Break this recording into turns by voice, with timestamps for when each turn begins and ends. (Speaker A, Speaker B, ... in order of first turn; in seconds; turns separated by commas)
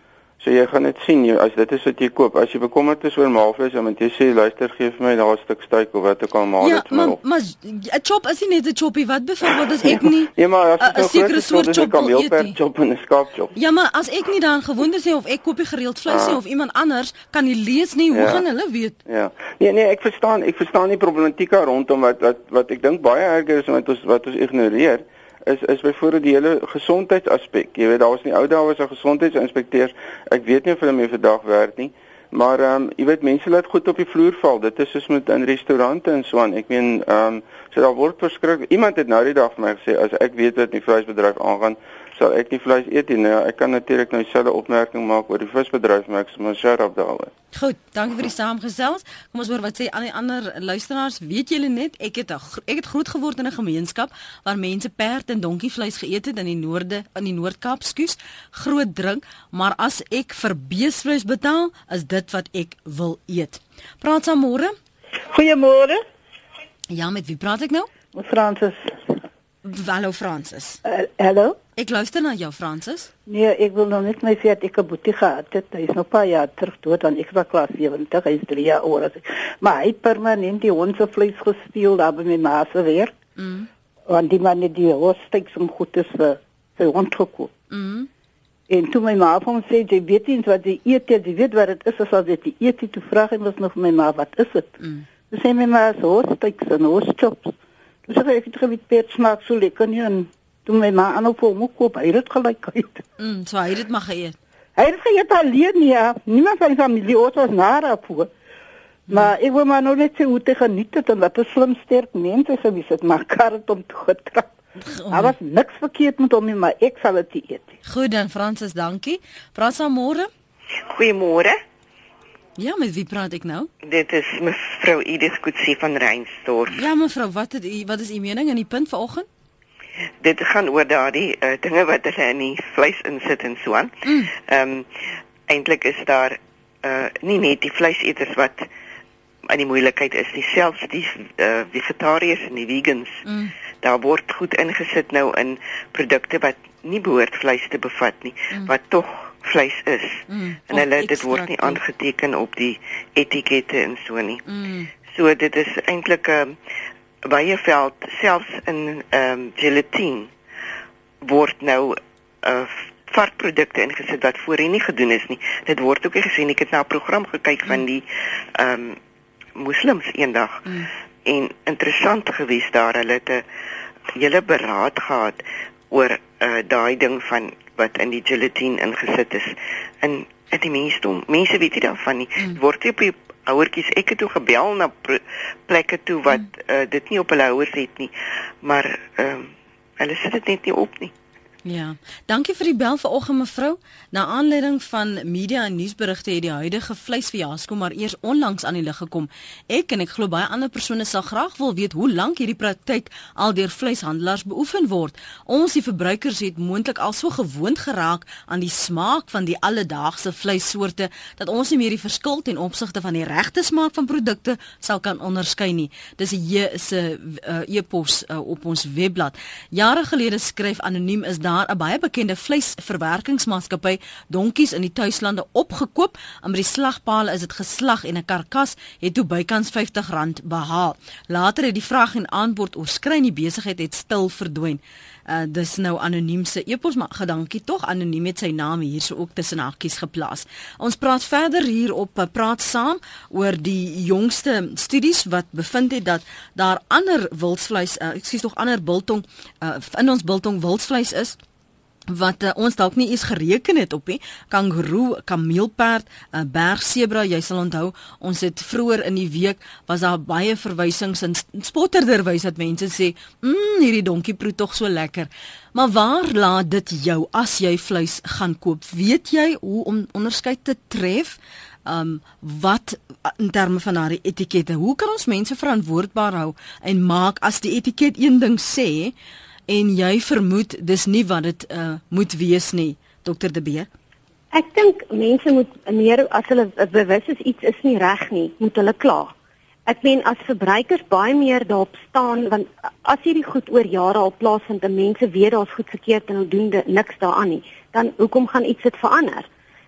Speaker A: 0.4-7.2, Speaker B: 6.6-12.6, Speaker A: 9.8-13.5, Speaker B: 13.5-19.0, Speaker A: 16.1-16.4, Speaker A: 18.1-18.4, Speaker A: 19.1-47.3, Speaker B: 47.5-64.7, Speaker C: 65.2-66.0, Speaker B: 66.9-67.9, Speaker C: 68.1-69.2, Speaker B: 69.6-70.8, Speaker C: 70.8-71.6, Speaker B: 71.8-73.1, Speaker C: 73.2-83.2, Speaker B: 83.4-83.7, Speaker C: 84.1-87.5, Speaker B: 87.7-88.1, Speaker C: 88.7-97.5, Speaker C: 98.1-103.0, Speaker B: 103.2-104.4, Speaker C: 104.8-108.3, Speaker C: 109.1-114.6, Speaker B: 114.8-115.3, Speaker C: 115.1-117.8, Speaker B: 117.8-120.3, Speaker D: 120.8-121.6, Speaker B: 122.6-123.7, Speaker D: 123.8-126.8, Speaker B: 126.7-129.2, Speaker D: 130.2-138.7, Speaker D: 139.5-143.2, Speaker B: 143.2-143.5, Speaker D: 143.8-154.4, Speaker B: 150.3-151.8, Speaker B: 154.5-154.9, Speaker D: 155.1-156.6, Speaker D: 157.2-160.3, Speaker D: 161.2-168.0, Speaker D: 168.5-169.0, Speaker D: 169.6-173.4, Speaker D: 174.1-191.1, Speaker B: 191.6-251.4, Speaker B: 252.1-279.1, Speaker B: 279.7-283.9, Speaker E: 284.5-289.3, Speaker E: 289.9-299.5